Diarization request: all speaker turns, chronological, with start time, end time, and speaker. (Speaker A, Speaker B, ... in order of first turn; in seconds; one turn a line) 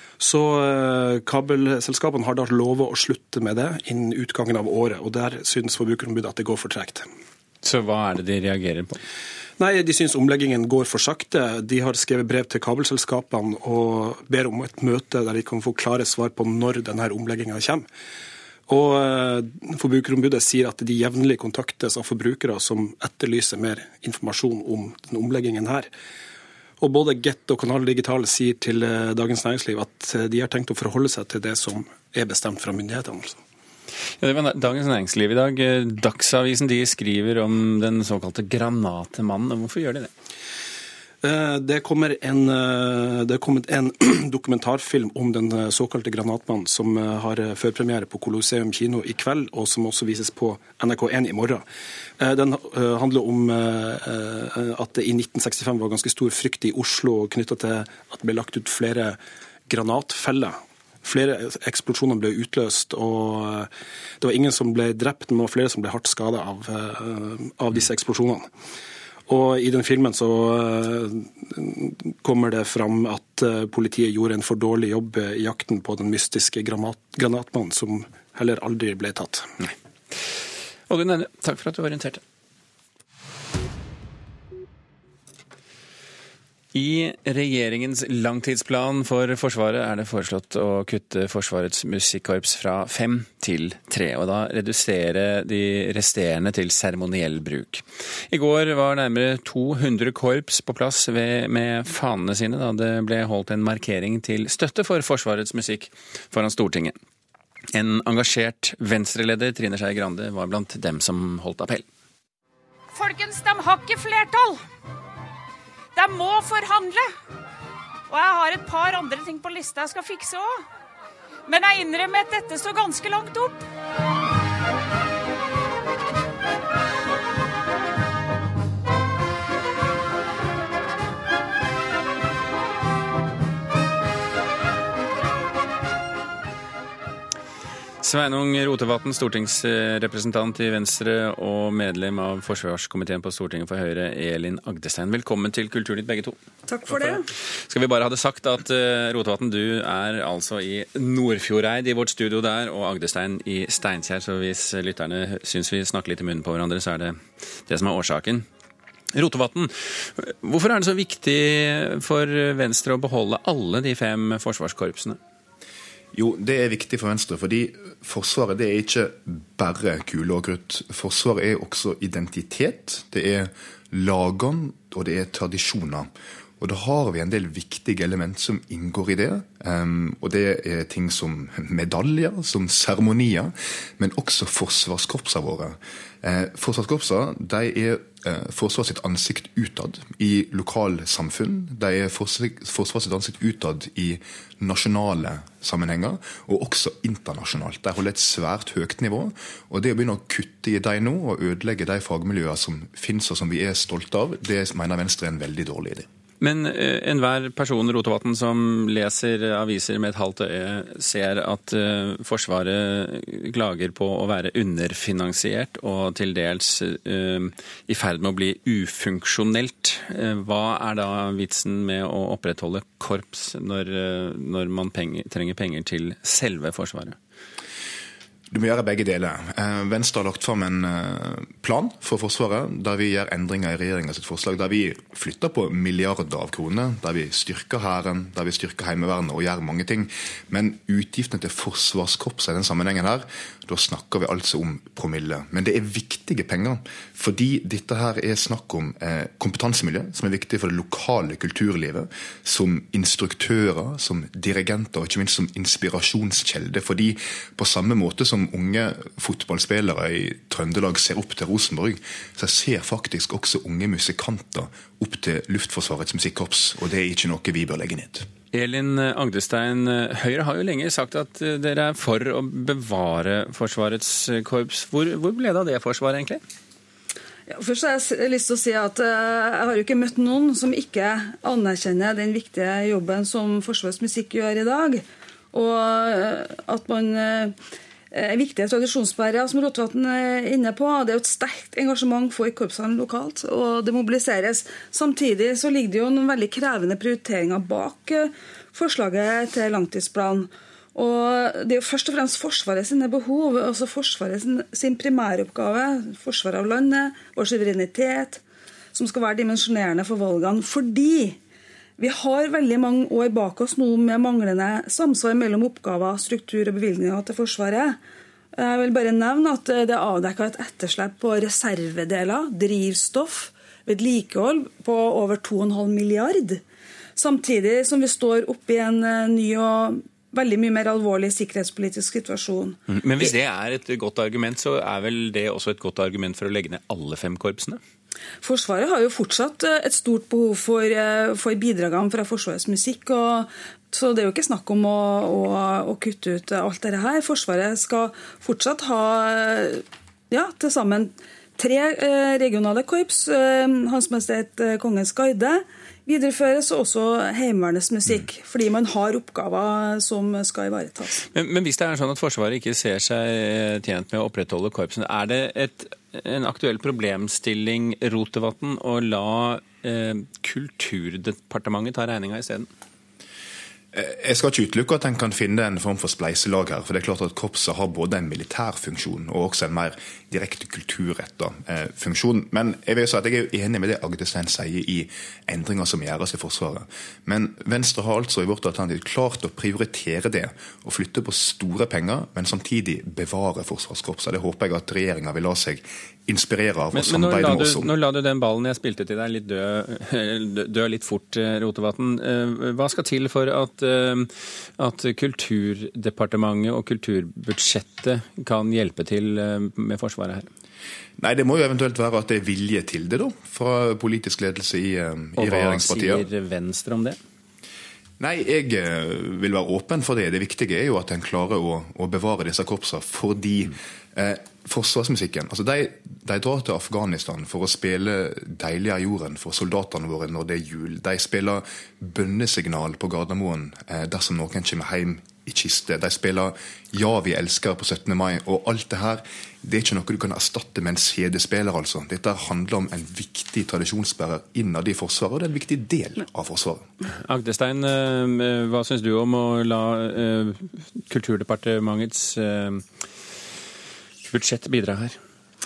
Speaker A: 0.2-7.0
Speaker B: 7.6-9.0
Speaker A: 9.6-17.9
Speaker A: 18.7-25.9
Speaker A: 26.8-33.4
Speaker B: 34.2-40.1
Speaker A: 41.2-51.6
Speaker A: 52.2-63.7
Speaker A: 64.2-68.5
Speaker A: 69.3-79.5
Speaker B: 79.6-80.3
Speaker B: 80.9-82.2
Speaker B: 86.7-107.0
Speaker B: 107.7-111.9
Speaker C: 112.9-114.6
Speaker C: 115.9-117.1
Speaker C: 118.1-120.6
Speaker C: 121.5-123.6
Speaker B: 138.0-146.3
Speaker D: 146.7-147.2
Speaker B: 146.9-158.4
Speaker B: 159.1-165.2
Speaker E: 166.1-206.1
Speaker B: 206.4-227.2
Speaker E: 228.5-268.3
Speaker B: 268.5-276.4
Speaker D: 277.5-287.6
Speaker D: 288.1-308.4
Speaker D: 308.9-311.4
Speaker D: 312.0-318.0
Speaker D: 318.6-326.6
Speaker D: 327.1-332.8
Speaker B: 332.9-337.8
Speaker D: 338.4-361.2
Speaker B: 361.3-372.7
Speaker E: 373.9-397.9
Speaker B: 396.9-410.5
Speaker E: 411.2-416.3
Speaker B: 415.4-417.2
Speaker E: 418.2-446.9
Speaker B: 447.1-452.8
Speaker B: 454.2-455.2